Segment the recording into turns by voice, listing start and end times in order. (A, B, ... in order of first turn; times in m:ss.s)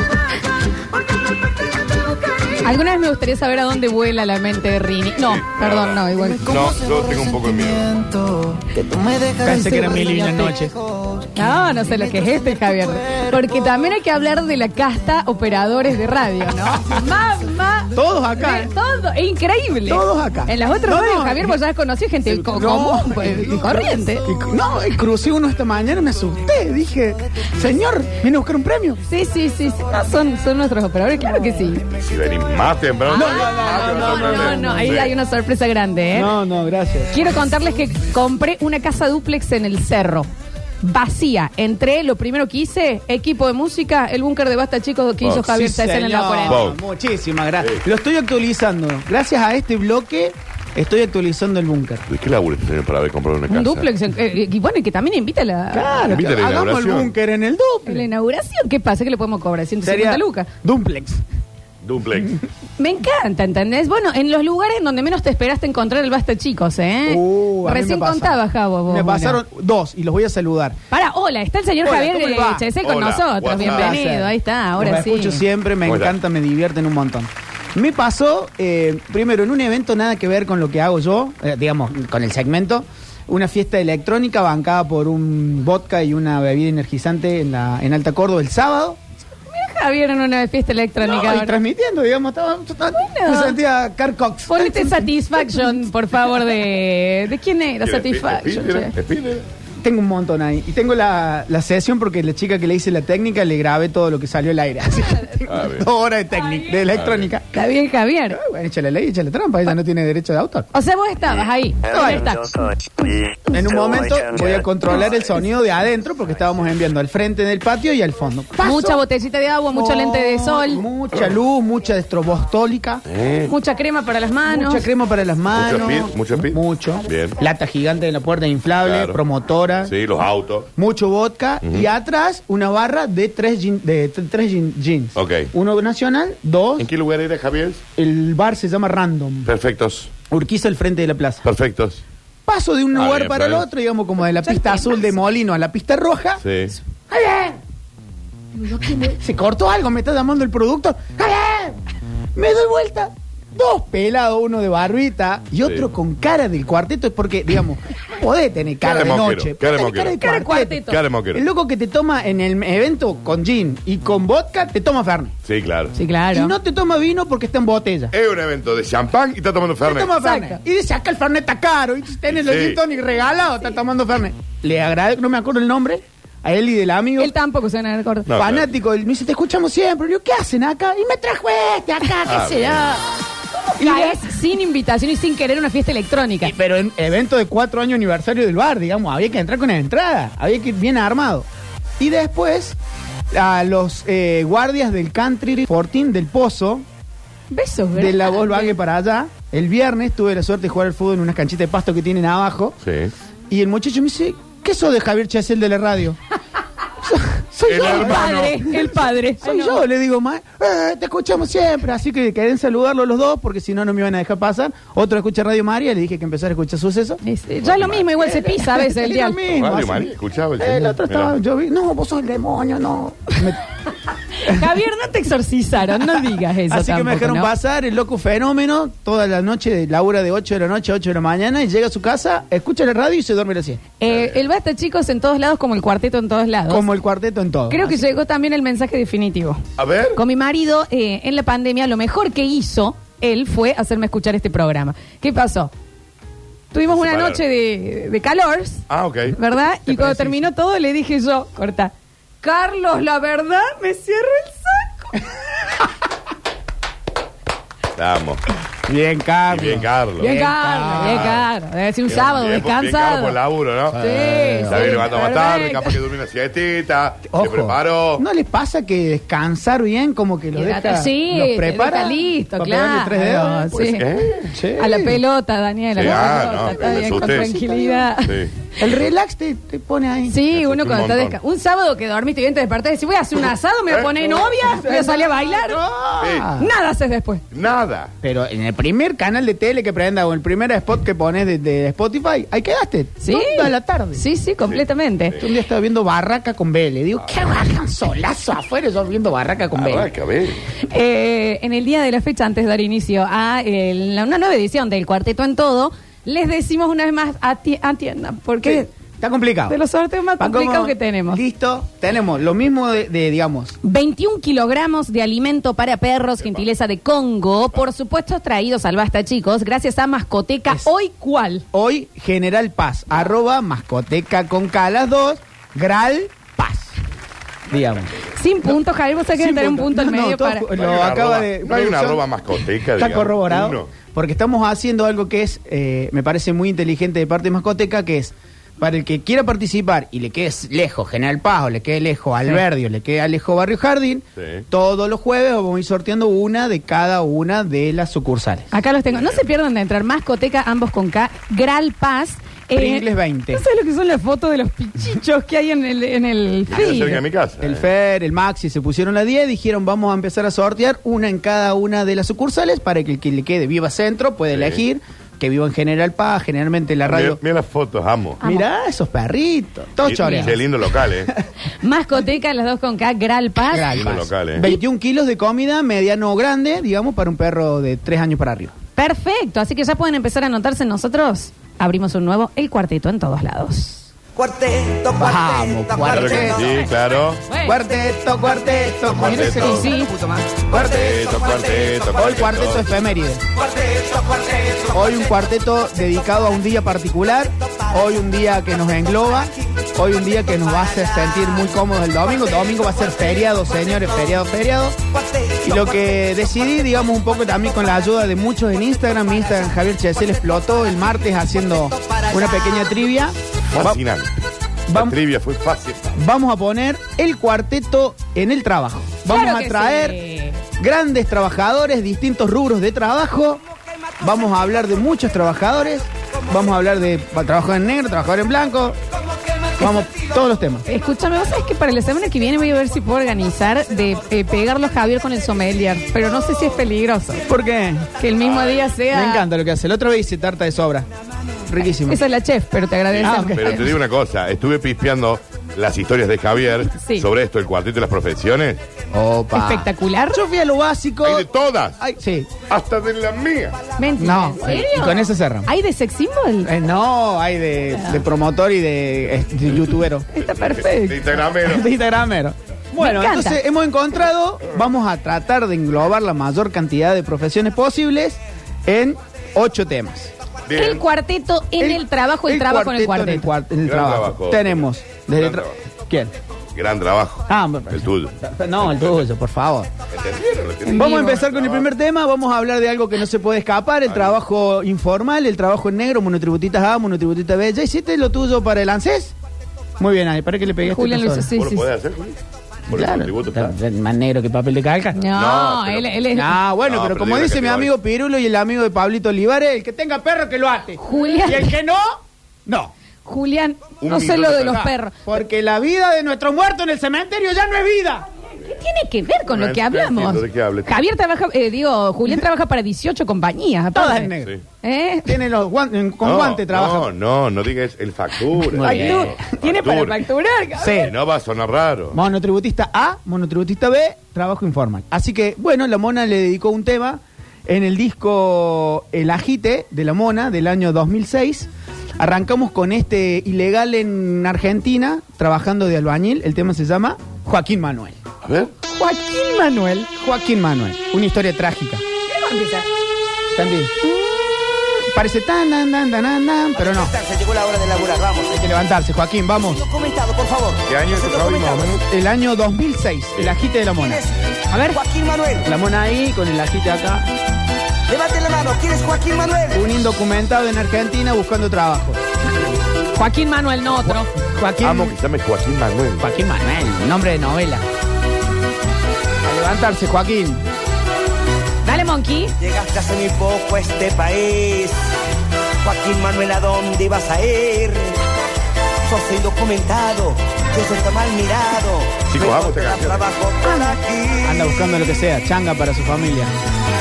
0:02.6-0:06.5 A
0:05.2-0:08.0 B
0:08.7-0:10.7 C
0:11.3-0:24.3 A
0:17.9-0:18.7 C
0:19.8-0:21.6 C
0:22.2-0:29.0 C
0:29.1-0:31.8 A
0:32.0-0:35.1 B
0:33.1-0:36.3 A
0:33.1-0:34.7 C
0:36.1-0:37.1 C
0:37.1-0:40.3 A
0:40.8-0:46.6 A
0:45.3-0:52.0 C
0:46.5-0:46.8 B
0:52.1-0:53.9 B
0:53.5-0:56.2 A
0:55.7-0:58.1 C
0:56.1-0:57.1 B
0:57.9-1:00.5 A
0:59.8-1:01.2 C
1:01.8-1:02.4 B
1:02.8-1:09.4 A
1:07.0-1:10.8 C
1:10.9-1:15.4 A
1:11.8-1:12.6 C
1:12.8-1:13.9 B
1:13.5-1:29.0 C
1:15.8-1:16.1 B
1:29.5-1:31.6 A
1:31.0-1:36.4 C
1:33.0-1:33.6 A
1:34.5-1:38.9 A
1:37.8-1:39.4 B
1:39.8-1:47.5 C
1:45.5-1:45.8 B
1:46.3-1:46.8 A
1:46.9-1:47.3 B
1:47.5-1:48.4 A
1:48.3-1:50.7 C
1:50.7-1:52.6 A
1:51.9-1:52.3 C
1:53.5-1:59.0 C
1:58.6-2:00.8 A
1:59.7-2:03.0 C
2:03.0-2:03.5 B
2:03.5-2:04.8 A
2:04.4-2:09.9 C
2:05.5-2:07.4 B
2:08.8-2:09.2 B
2:09.8-2:10.7 B
2:10.8-2:16.9 C
2:15.1-2:15.5 B
2:16.8-2:17.8 B
2:18.0-2:19.5 C
2:19.4-2:20.1 B
2:20.3-2:21.4 C
2:21.4-2:22.0 B
2:22.5-2:26.4 C
2:23.0-2:23.6 B
2:24.4-2:25.0 A
2:26.4-2:26.7 B
2:27.0-2:27.6 C
2:28.6-2:29.1 A
2:29.0-2:31.8 C
2:32.3-2:40.8 C
2:38.8-2:40.2 B
2:40.2-2:41.0 A
2:40.8-2:41.4 B
2:41.3-2:45.3 C
2:45.4-2:45.9 B
2:45.9-2:46.5 A
2:46.3-2:48.1 C
2:48.1-2:50.1 B
2:49.8-2:57.3 C
2:50.2-2:50.6 A
2:52.3-2:52.8 B
2:57.2-2:58.3 A
2:58.3-2:58.7 B
2:58.3-3:02.8 C
3:02.2-3:02.9 A
3:02.3-3:03.0 B
3:03.7-3:06.5 A
3:03.8-3:04.2 C
3:06.4-3:11.4 C
3:12.0-3:12.8 C
3:13.3-3:16.8 C
3:17.5-3:18.8 A
3:18.0-3:22.8 C
3:22.8-3:23.1 B
3:23.5-3:26.2 C
3:27.0-3:37.2 C
3:27.7-3:28.5 B
3:27.7-3:29.8 A
3:37.2-3:39.4 A
3:37.6-3:38.1 B
3:38.2-3:43.6 C
3:39.4-3:41.3 B
3:44.4-3:47.5 A
3:46.1-3:53.8 C
3:54.0-3:56.8 A
3:54.1-3:54.4 B
3:56.7-3:57.9 C
3:57.7-3:59.6 A
3:59.8-4:00.2 B
4:00.1-4:05.7 A
4:06.7-4:15.2 A
4:06.9-4:07.4 B
4:08.9-4:09.4 B
4:09.9-4:10.4 C
4:18.0-4:18.4 B
4:18.9-4:21.4 C
4:19.5-4:20.3 B
4:20.2-4:23.4 A
4:21.1-4:21.4 B
4:22.0-4:24.0 B
4:23.9-4:25.0 C
4:24.0-4:26.0 A
4:24.6-4:28.2 B
4:27.3-4:33.7 C
4:30.5-4:38.4 A
4:33.7-4:34.5 B
4:34.5-4:35.2 C
4:36.0-4:37.5 B
4:36.0-4:38.1 C
4:38.2-4:38.5 B
4:38.8-4:40.4 C
4:40.3-4:45.8 A
4:40.5-4:41.4 B
4:43.9-4:44.2 B
4:44.2-4:46.7 C
4:46.2-4:46.5 B
4:46.6-4:47.4 A
4:47.5-4:48.1 B
4:48.2-4:54.2 C
4:53.2-4:55.4 A
4:55.4-5:00.1 C
4:59.7-5:00.6 B
5:00.8-5:08.9 A
5:08.6-5:09.8 C
5:09.7-5:11.4 A
5:10.4-5:13.8 C
5:13.8-5:21.6 A
5:21.7-5:26.9 C
5:27.7-5:28.2 C
5:28.4-5:30.6 A
5:29.3-5:32.2 C
5:30.7-5:33.9 B
5:32.9-5:48.7 C
5:44.4-5:44.6 B
5:48.7-5:57.2 A
5:52.7-5:53.6 C
5:56.7-5:57.8 B
5:57.6-6:07.4 C
6:04.5-6:04.8 B
6:07.0-6:08.4 B
6:08.4-6:10.7 C
6:08.4-6:08.7 A
6:10.0-6:11.3 B
6:10.1-6:10.5 A
6:11.8-6:14.0 A
6:13.7-6:18.8 C
6:13.9-6:14.7 B
6:19.0-6:24.1 A
6:24.3-6:27.2 D
6:25.2-6:26.8 C
6:26.1-6:27.4 B
6:27.5-6:27.8 A
6:27.6-6:31.1 C
6:27.8-6:29.2 D
6:29.1-6:29.8 B
6:29.3-6:30.1 A
6:30.5-6:32.7 D
6:30.8-6:32.9 B
6:32.1-6:33.4 C
6:33.5-6:35.4 D
6:34.9-6:45.0 C
6:37.8-6:38.3 D
6:40.2-6:41.7 D
6:42.2-6:44.4 D
6:45.0-6:48.2 D
6:45.6-6:54.0 C
6:49.1-6:51.1 D
6:51.7-6:53.0 D
6:53.7-6:54.3 B
6:54.9-6:55.2 C
6:54.9-6:56.2 B
6:56.2-7:00.2 C
6:59.2-7:00.6 A
7:00.8-7:03.6 C
7:03.8-7:05.2 D
7:04.2-7:09.0 C
7:06.3-7:06.8 D
7:09.1-7:10.0 D
7:09.8-7:10.8 C
7:10.9-7:17.5 A
7:17.5-7:18.1 C
7:18.2-7:19.4 A
7:18.4-7:18.8 B
7:19.1-7:21.1 C
7:21.7-7:22.2 C
7:22.1-7:23.9 A
7:23.1-7:28.8 B
7:23.2-7:23.9 C
7:26.9-7:27.3 A
7:29.1-7:31.5 C
7:29.5-7:30.4 A
7:31.2-7:32.0 B
7:32.0-7:32.5 C
7:32.6-7:33.8 B
7:34.0-7:36.7 A
7:34.2-7:35.7 C
7:36.6-7:40.2 C
7:37.9-7:38.2 A
7:40.3-7:41.4 A
7:40.4-7:41.9 B
7:41.6-7:50.3 C
7:43.0-7:43.6 A
7:50.7-7:51.0 B
7:50.7-7:53.5 A
7:51.8-7:56.3 C
7:53.9-7:55.7 B
7:56.7-7:58.3 B
7:57.5-7:59.9 C
8:00.1-8:01.9 B
8:00.8-8:01.4 A
8:00.9-8:09.3 C
8:04.1-8:04.3 B
8:10.0-8:11.5 C
8:10.8-8:11.9 A
8:11.5-8:12.3 B
8:12.9-8:13.7 B
8:12.9-8:15.2 C
8:15.1-8:16.6 A
8:15.3-8:16.2 B
8:16.3-8:22.9 C
8:16.8-8:17.9 B
8:21.0-8:21.7 A
8:23.2-8:25.4 A
8:24.0-8:24.9 B
8:24.7-8:28.2 C
8:28.6-8:35.4 A
8:29.5-8:31.0 B
8:33.9-8:34.5 C
8:35.2-8:37.1 C
8:36.2-8:40.2 B
8:38.7-8:39.4 C
8:38.8-8:41.1 A
8:40.8-8:41.1 C
8:41.0-8:42.2 B
8:42.1-8:58.2 C
8:58.4-8:58.7 B
8:58.8-9:02.0 C
9:02.2-9:02.8 A
9:03.5-9:03.9 C
9:04.0-9:04.7 A
9:05.1-9:07.1 C
9:06.8-9:08.6 D
9:08.5-9:09.8 C
9:09.5-9:12.0 D
9:10.9-9:12.0 B
9:12.1-9:14.2 C
9:13.9-9:15.7 D
9:14.7-9:15.0 A
9:15.6-9:17.3 C
9:18.1-9:19.9 D
9:19.7-9:22.2 C
9:23.1-9:24.3 A
9:24.0-9:25.1 C
9:24.8-9:26.2 B
9:26.2-9:27.8 C
9:29.4-9:30.6 C
9:31.8-9:32.5 A
9:32.6-9:35.1 D
9:35.8-9:38.2 D
9:39.0-9:44.6 D
9:42.3-9:43.3 B
9:44.4-9:46.5 C